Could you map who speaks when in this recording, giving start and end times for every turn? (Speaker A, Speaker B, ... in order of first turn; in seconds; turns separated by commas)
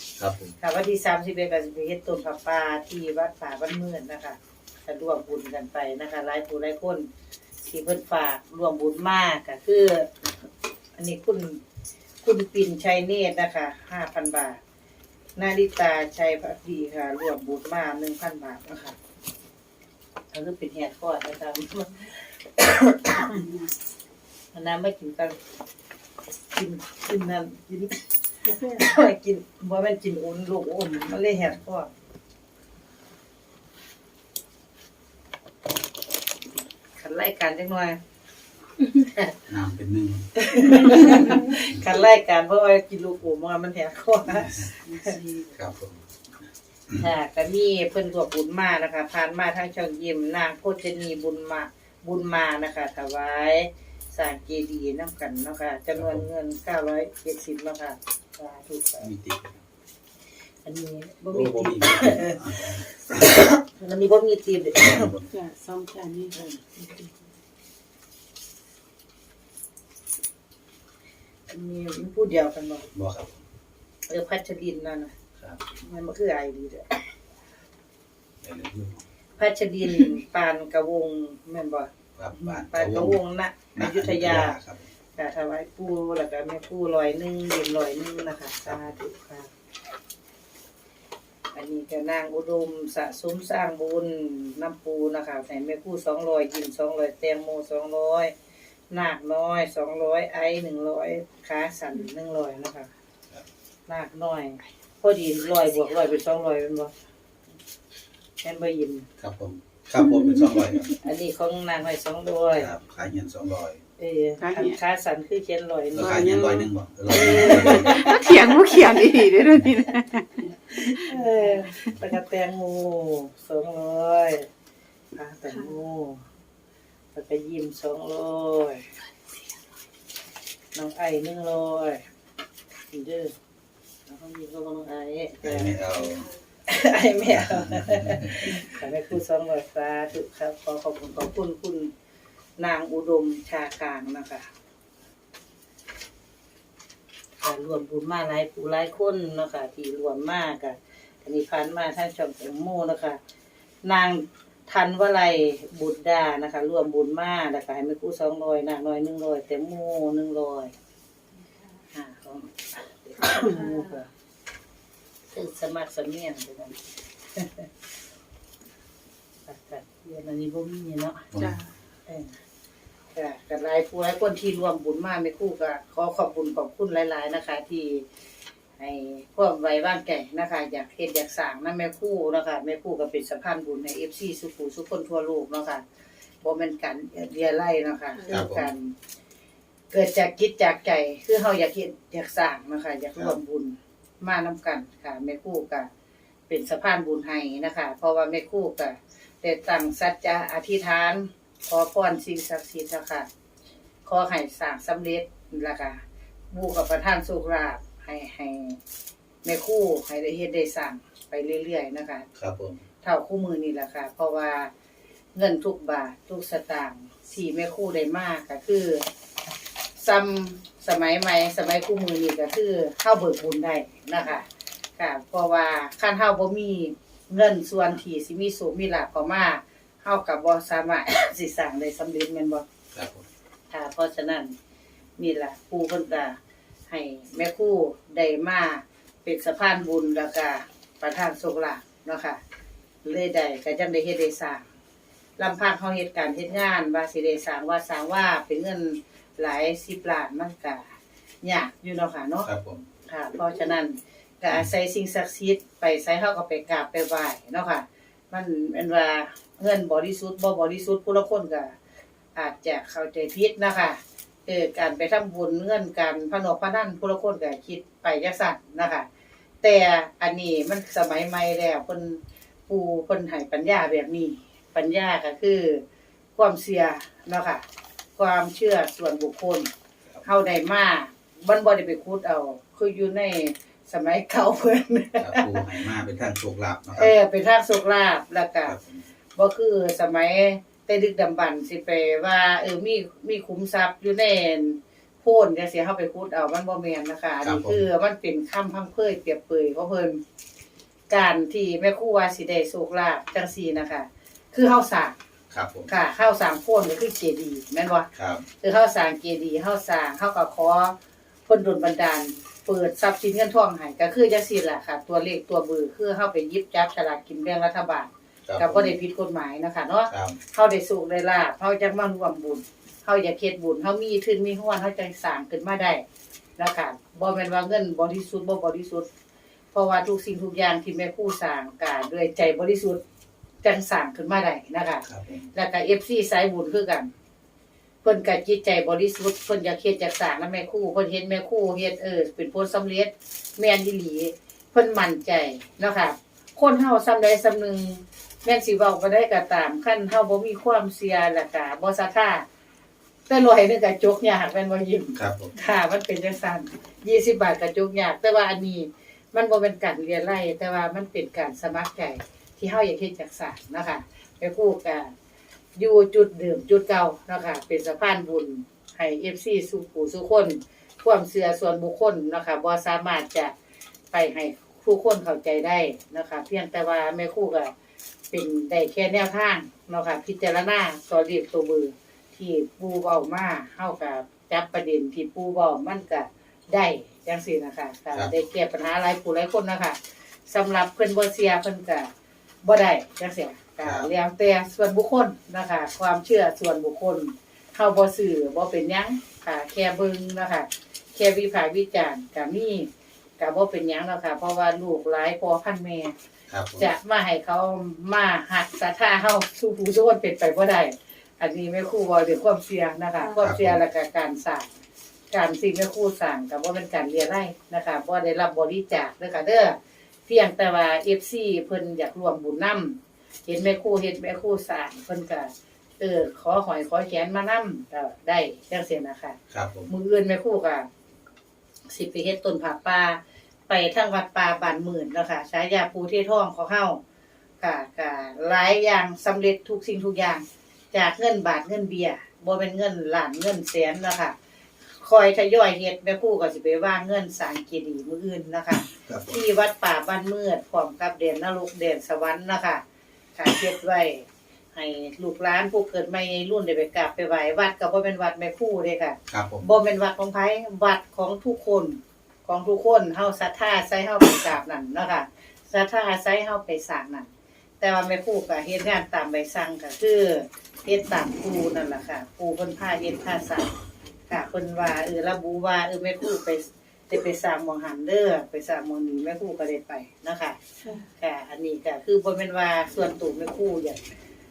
Speaker A: 0.2-0.6, Speaker B: 0.6-7.1, Speaker B: 7.6-10.1, Speaker B: 11.0-11.6, Speaker B: 12.2-14.6, Speaker B: 15.4-19.0, Speaker B: 20.3-23.4, Speaker B: 24.5-25.4, Speaker B: 26.5-28.0, Speaker C: 28.5-28.8, Speaker B: 28.7-31.9, Speaker B: 37.0-38.0, Speaker B: 38.9-39.3, Speaker A: 39.5-40.3, Speaker B: 40.4-45.2, Speaker C: 44.9-45.5, Speaker A: 45.6-46.0, Speaker B: 47.0-59.1, Speaker A: 56.0-56.3, Speaker A: 59.0-59.6, Speaker B: 60.6-62.8, Speaker A: 61.3-63.4, Speaker B: 63.8-65.1, Speaker A: 64.8-65.3, Speaker C: 65.3-67.1, Speaker B: 71.5-72.9, Speaker A: 72.9-73.4, Speaker B: 74.1-75.1, Speaker B: 75.7-77.0, Speaker A: 78.4-79.0, Speaker B: 79.4-84.6, Speaker A: 82.2-83.2, Speaker A: 83.8-84.9, Speaker B: 85.2-89.5, Speaker A: 88.6-88.9, Speaker B: 91.5-98.3, Speaker B: 98.9-102.9, Speaker B: 103.9-106.9, Speaker B: 108.4-109.1, Speaker A: 109.2-110.9, Speaker B: 111.0-112.7, Speaker A: 112.6-113.8, Speaker B: 114.0-116.3, Speaker C: 114.4-114.8, Speaker A: 115.9-118.1, Speaker C: 116.0-121.1, Speaker B: 117.6-118.0, Speaker B: 121.1-124.5, Speaker B: 125.1-126.2, Speaker B: 127.1-128.8, Speaker B: 130.7-132.0, Speaker B: 132.9-133.3, Speaker B: 134.1-136.0, Speaker A: 135.4-136.3, Speaker B: 136.7-141.9, Speaker A: 137.3-138.6, Speaker B: 142.6-144.5, Speaker B: 147.4-153.2, Speaker B: 153.8-160.7, Speaker B: 161.9-164.1, Speaker B: 165.3-166.8, Speaker B: 167.3-167.7, Speaker B: 169.5-171.2, Speaker A: 171.3-171.6, Speaker C: 171.4-171.7, Speaker B: 172.1-172.3, Speaker B: 173.1-178.1, Speaker B: 178.8-185.8, Speaker B: 186.4-188.9, Speaker A: 188.3-188.7, Speaker B: 189.9-195.9, Speaker B: 196.5-203.3, Speaker B: 204.1-206.0, Speaker B: 206.5-208.8, Speaker B: 209.4-212.3, Speaker A: 212.4-212.8, Speaker B: 213.0-214.7, Speaker B: 215.3-219.0, Speaker B: 220.0-224.5, Speaker B: 225.0-232.7, Speaker A: 232.9-233.2, Speaker B: 233.7-234.5, Speaker B: 235.2-236.4, Speaker B: 236.9-242.4, Speaker B: 243.0-244.7, Speaker B: 245.4-250.9, Speaker B: 251.4-252.5, Speaker A: 252.4-252.8, Speaker B: 253.1-261.8, Speaker B: 262.4-269.1, Speaker B: 269.6-275.8, Speaker B: 276.4-277.6, Speaker B: 278.2-279.7, Speaker B: 280.2-285.6, Speaker A: 285.2-287.1, Speaker B: 287.0-288.8, Speaker A: 288.7-289.0, Speaker B: 289.4-300.2, Speaker A: 297.4-297.8, Speaker B: 301.1-305.2, Speaker A: 305.5-305.9, Speaker B: 305.9-308.1, Speaker A: 308.2-308.4, Speaker B: 308.6-310.9, Speaker B: 311.5-326.0, Speaker A: 318.5-319.0, Speaker A: 320.1-320.4, Speaker B: 326.6-329.1, Speaker B: 329.7-333.0, Speaker B: 333.6-337.1, Speaker A: 335.1-335.5, Speaker B: 338.0-352.4, Speaker B: 353.3-365.1, Speaker A: 355.2-355.5, Speaker B: 365.8-373.5, Speaker B: 374.1-377.7, Speaker B: 378.3-392.1, Speaker B: 392.6-402.9, Speaker A: 393.8-394.1, Speaker B: 403.4-406.1, Speaker A: 406.5-406.9, Speaker B: 406.8-414.7, Speaker A: 413.4-413.8, Speaker B: 415.3-429.4, Speaker A: 429.5-429.9, Speaker B: 429.9-430.9, Speaker B: 431.9-437.0, Speaker B: 437.6-444.4, Speaker B: 445.0-452.8, Speaker A: 448.9-449.4, Speaker B: 453.4-467.3, Speaker A: 459.3-459.6, Speaker B: 467.8-473.7, Speaker B: 474.3-480.6, Speaker B: 481.2-484.0